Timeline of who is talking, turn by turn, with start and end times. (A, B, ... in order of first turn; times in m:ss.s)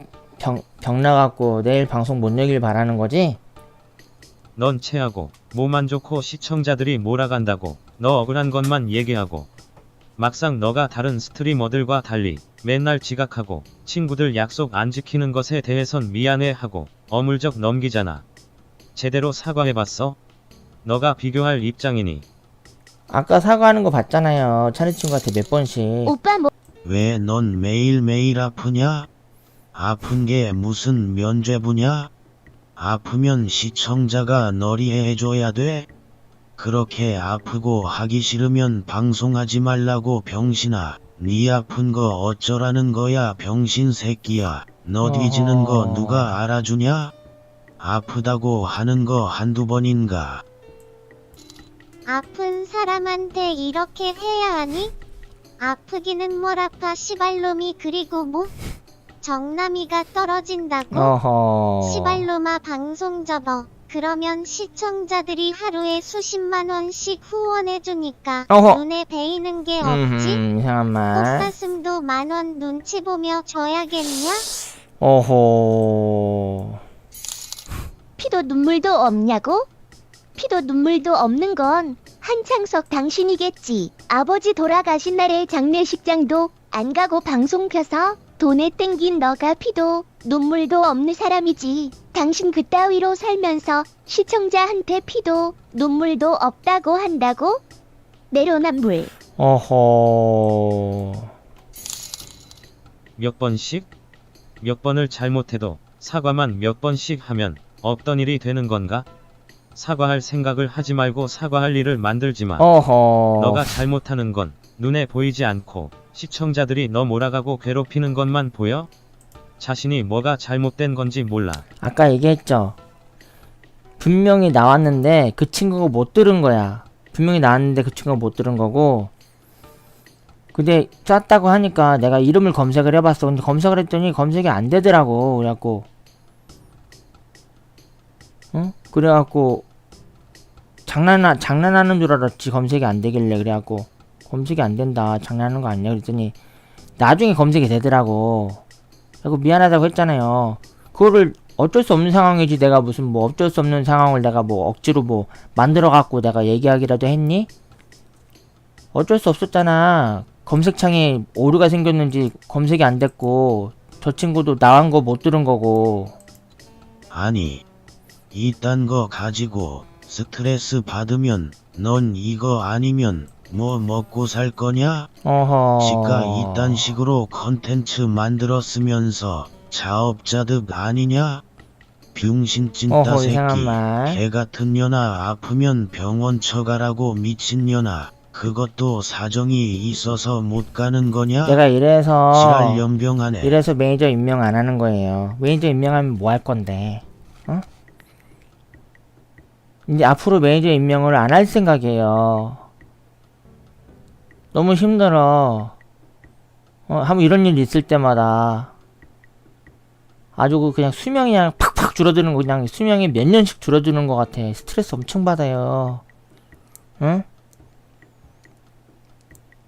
0:00.4-0:03.4 A
0:04.6-0:09.5 B
0:10.2-0:18.2 B
0:18.9-0:20.2 B
0:20.8-0:22.2 B
0:23.1-0:26.1 A
0:26.0-0:26.5 C
0:26.8-0:29.1 D
0:29.7-0:32.1 D
0:32.8-0:35.9 D
0:36.6-0:47.1 D
0:45.0-0:46.3 A
0:47.8-0:50.4 D
0:52.0-0:54.9 E
0:55.6-0:58.5 E
0:59.2-1:01.1 E
1:00.9-1:02.2 A
1:01.8-1:10.4 E
1:08.5-1:08.8 A
1:09.8-1:11.5 A
1:11.1-1:14.4 E
1:15.0-1:16.8 A
1:18.2-1:19.7 C
1:20.4-1:37.6 C
1:38.3-1:39.1 C
1:39.4-1:41.3 A
1:43.2-1:43.9 B
1:44.6-1:49.0 B
1:49.7-1:52.7 B
1:52.6-1:53.7 A
1:53.4-1:58.9 B
1:59.6-2:01.6 B
2:01.8-2:02.8 A
2:04.0-2:09.1 A
2:10.5-2:15.9 A
2:18.5-2:19.6 A
2:20.9-2:26.3 A
2:27.0-2:28.6 A
2:29.2-2:37.5 A
2:38.9-2:46.2 A
2:47.1-2:47.6 D
2:48.3-2:55.1 D
2:55.2-2:56.9 A
2:55.8-3:01.4 D
3:02.1-3:11.6 D
3:02.9-3:04.2 A
3:11.4-3:12.8 A
3:12.3-3:13.6 D
3:13.4-3:17.6 A
3:19.9-3:22.6 A
3:24.5-3:25.7 A
3:26.9-3:28.7 A
3:30.4-3:36.0 A
3:37.0-3:37.2 A